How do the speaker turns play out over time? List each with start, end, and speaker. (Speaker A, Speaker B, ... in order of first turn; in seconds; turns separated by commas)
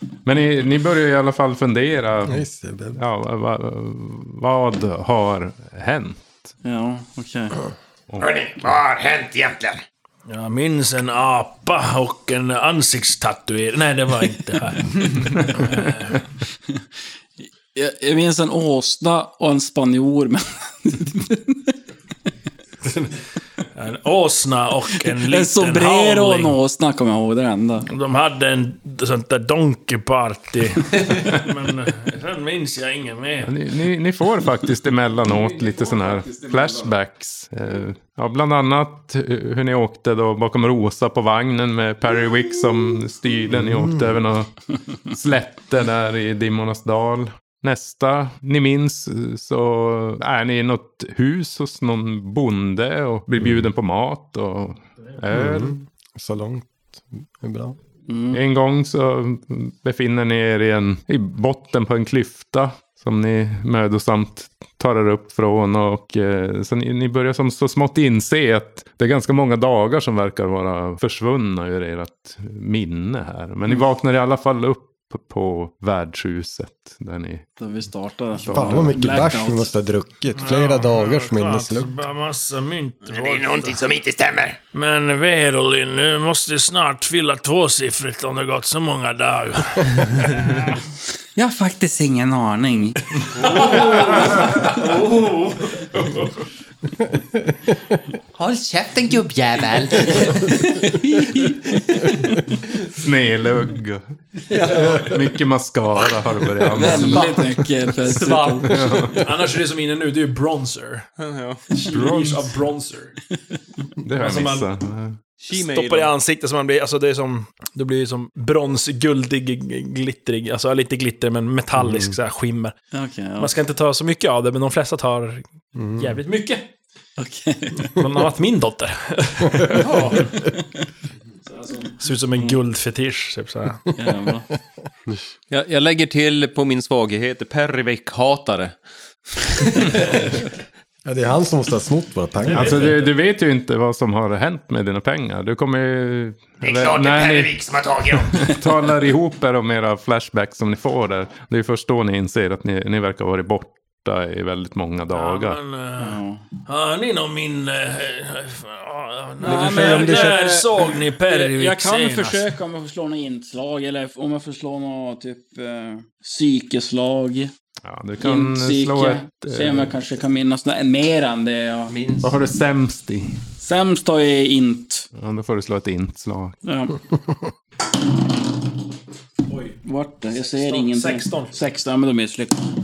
Speaker A: 0.2-6.3, Speaker B: 2.2-3.0, Speaker C: 6.6-7.6, Speaker D: 8.2-9.8, Speaker E: 10.3-16.2, Speaker A: 15.4-15.8, Speaker C: 17.7-21.7, Speaker E: 22.9-23.1, Speaker E: 23.7-26.6, Speaker C: 25.1-27.9, Speaker E: 27.9-33.5, Speaker A: 33.4-44.5, Speaker A: 45.0-55.8, Speaker B: 55.3-57.8, Speaker C: 58.1-58.4, Speaker A: 58.3-77.4, Speaker C: 77.6-79.7, Speaker A: 78.3-79.3, Speaker B: 78.5-81.9, Speaker E: 80.3-83.8, Speaker D: 83.0-84.6, Speaker E: 84.7-90.8, Speaker C: 91.3-93.0, Speaker E: 93.3-96.2, Speaker F: 98.8-100.9, Speaker A: 103.0-104.0, Speaker F: 104.5-104.9, Speaker E: 104.7-105.0, Speaker A: 104.9-107.9, Speaker C: 106.7-109.0, Speaker F: 108.1-108.7, Speaker A: 108.6-109.3, Speaker E: 109.1-111.0, Speaker F: 111.2-111.6, Speaker E: 111.7-113.1, Speaker A: 111.9-112.4, Speaker A: 114.0-115.2, Speaker E: 114.1-114.7, Speaker F: 115.4-116.1, Speaker E: 115.5-122.7, Speaker C: 122.9-123.5, Speaker E: 123.4-126.7, Speaker B: 125.8-126.1, Speaker C: 127.2-128.0, Speaker E: 127.9-130.3, Speaker F: 129.7-130.3, Speaker C: 131.6-131.9, Speaker E: 132.0-133.8, Speaker C: 133.9-134.5, Speaker F: 135.5-138.8, Speaker F: 139.4-140.3, Speaker B: 141.1-142.9, Speaker E: 142.4-143.1, Speaker A: 142.5-147.6, Speaker D: 146.6-148.5, Speaker A: 148.1-155.6, Speaker E: 155.1-162.5, Speaker C: 156.0-156.4, Speaker B: 159.4-160.4, Speaker C: 159.4-160.7, Speaker C: 161.2-167.5, Speaker A: 167.8-169.9, Speaker C: 168.2-171.9, Speaker F: 171.9-172.3, Speaker A: 172.2-173.4, Speaker C: 173.6-175.1, Speaker A: 175.1-176.6, Speaker C: 176.6-177.0, Speaker E: 179.5-179.8, Speaker C: 179.8-182.7, Speaker E: 180.4-181.5